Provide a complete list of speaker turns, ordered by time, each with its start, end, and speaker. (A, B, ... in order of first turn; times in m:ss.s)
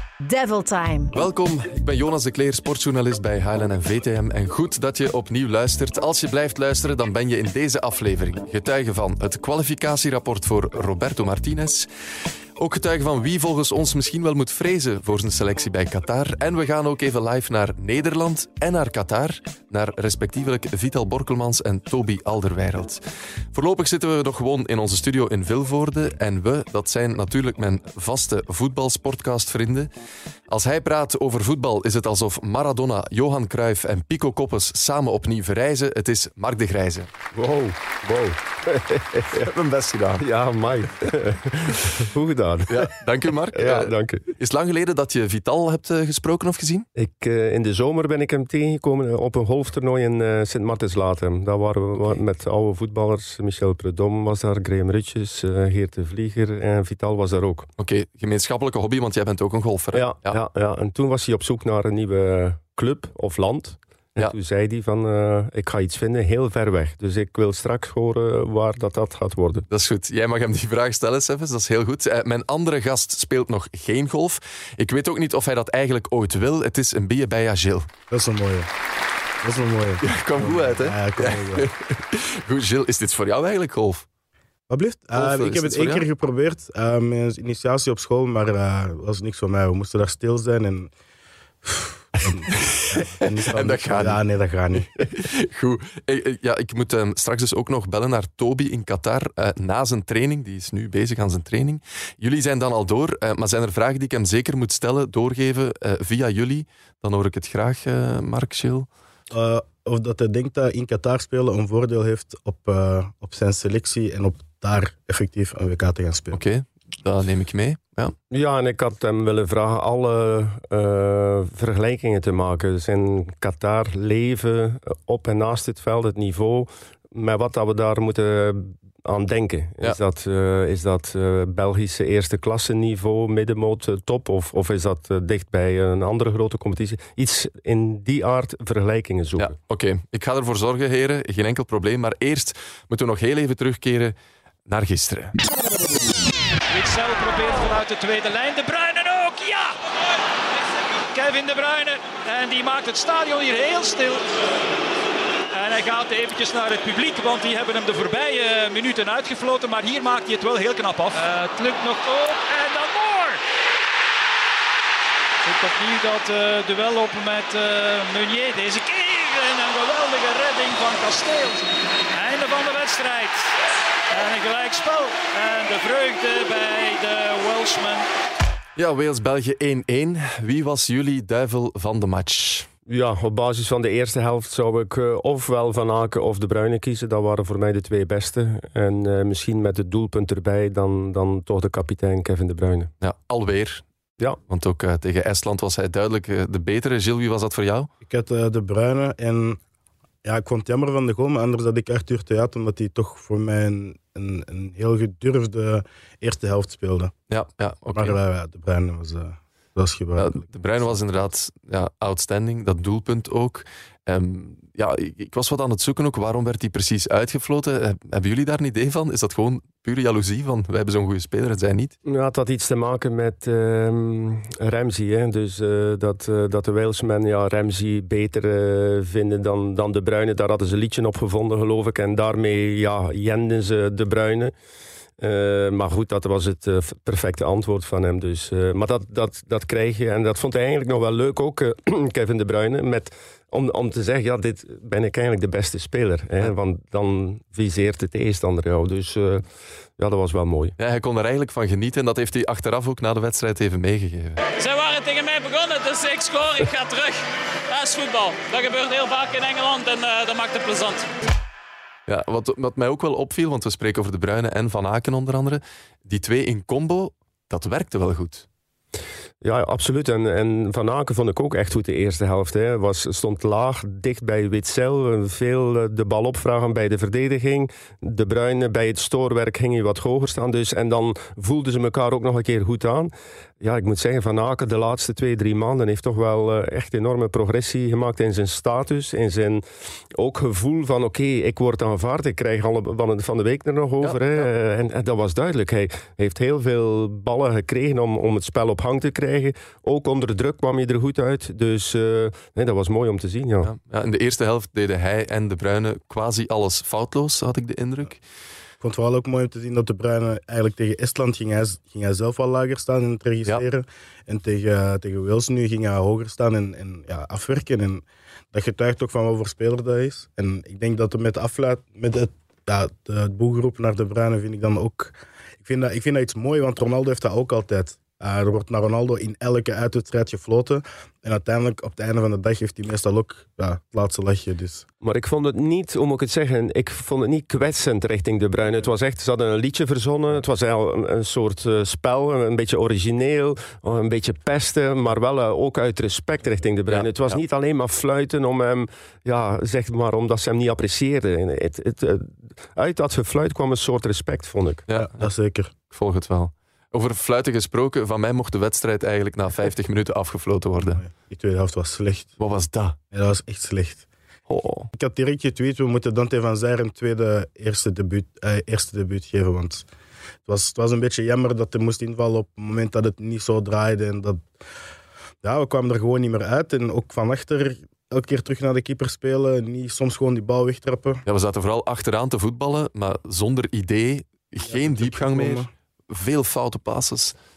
0:00.2-0:01.2 A
0:01.1-0:11.9 B
0:12.6-0:23.0 B
0:23.5-0:29.9 B
0:30.5-0:37.1 B
0:37.3-0:39.5 C
0:39.3-0:40.3 B
0:40.2-0:42.9 C
0:42.7-0:46.9 B
0:43.5-0:44.3 C
0:47.0-0:57.7 C
0:57.8-1:00.4 B
0:59.9-1:09.7 C
1:09.7-1:17.9 B
1:18.1-1:18.7 D
1:19.4-1:21.7 D
1:20.0-1:24.1 B
1:24.7-1:30.9 D
1:25.2-1:26.0 B
1:31.7-1:34.9 D
1:32.5-1:34.2 B
1:35.0-1:48.9 B
1:49.3-1:56.4 D
1:56.3-1:58.2 B
1:58.3-2:19.5 C
2:19.4-2:24.2 B
2:24.7-2:25.4 B
2:26.7-2:29.8 E
2:31.1-2:34.2 E
2:35.5-2:43.4 E
2:45.4-2:53.5 E
2:54.1-2:58.1 E
2:58.8-3:02.7 B
3:02.9-3:12.9 C
3:13.0-3:13.8 B
3:14.5-3:17.9 B
3:18.0-3:19.6 D
3:20.2-3:27.1 D
3:27.3-3:28.2 B
3:27.9-3:31.3 D
3:30.2-3:42.0 B
3:42.0-3:54.5 C
3:55.2-4:09.4 C
4:10.0-4:10.8 C
4:10.8-4:14.4 B
4:14.6-4:21.1 A
4:22.1-4:28.5 B
4:29.4-5:03.7 C
4:54.0-4:54.5 B
5:03.6-5:08.2 B
5:08.8-5:34.9 D
5:35.0-5:54.8 C
5:46.9-5:47.4 B
5:54.9-5:55.3 B
5:55.0-5:55.7 D
5:55.9-6:01.0 B
6:00.8-6:02.3 D
6:02.4-6:03.0 B
6:03.1-6:04.0 D
6:04.5-6:04.9 B
6:04.9-6:09.9 D
6:10.5-6:14.5 D
6:15.4-6:21.2 D
6:21.3-6:27.4 B
6:24.6-6:25.7 D